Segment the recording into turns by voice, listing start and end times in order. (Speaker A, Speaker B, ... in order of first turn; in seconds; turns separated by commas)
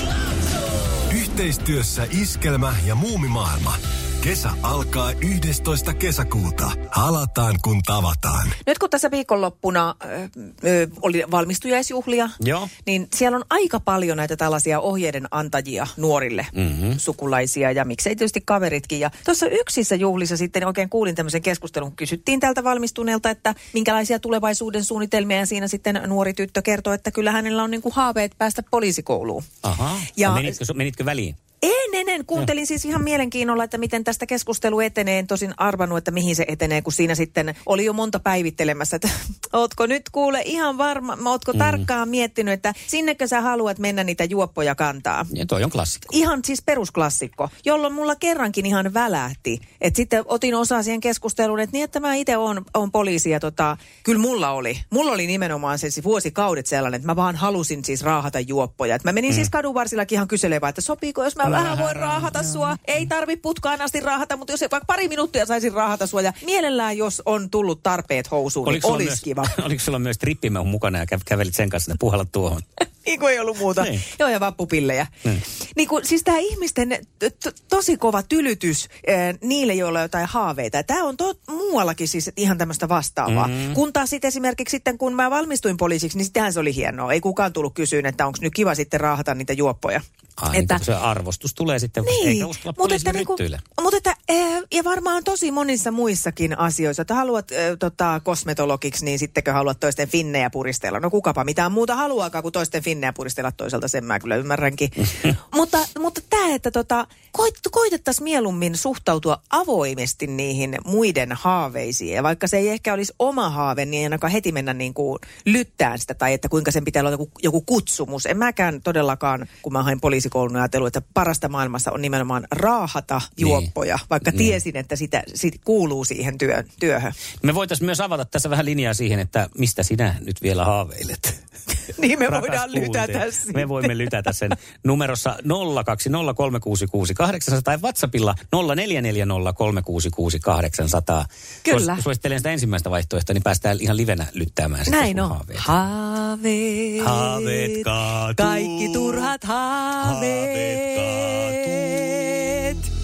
Speaker A: 1.1-8.6, Speaker B: 8.6-29.5, Speaker C: 12.4-12.7, Speaker C: 16.5-17.0, Speaker C: 29.6-31.4, Speaker B: 30.1-30.6, Speaker B: 31.6-45.3, Speaker C: 41.5-41.9, Speaker C: 45.3-46.1, Speaker B: 46.1-69.5, Speaker C: 61.4-62.8, Speaker C: 68.6-72.7, Speaker B: 73.0-75.1, Speaker C: 73.7-74.0, Speaker B: 75.8-90.8, Speaker C: 83.3-83.8, Speaker C: 90.4-93.6, Speaker B: 92.0-127.2, Speaker C: 123.4-123.7, Speaker C: 127.4-131.4, Speaker B: 131.9-134.1, Speaker C: 132.2-145.7, Speaker B: 141.7-142.0, Speaker B: 144.9-152.9, Speaker C: 147.0-149.4, Speaker C: 150.0-152.2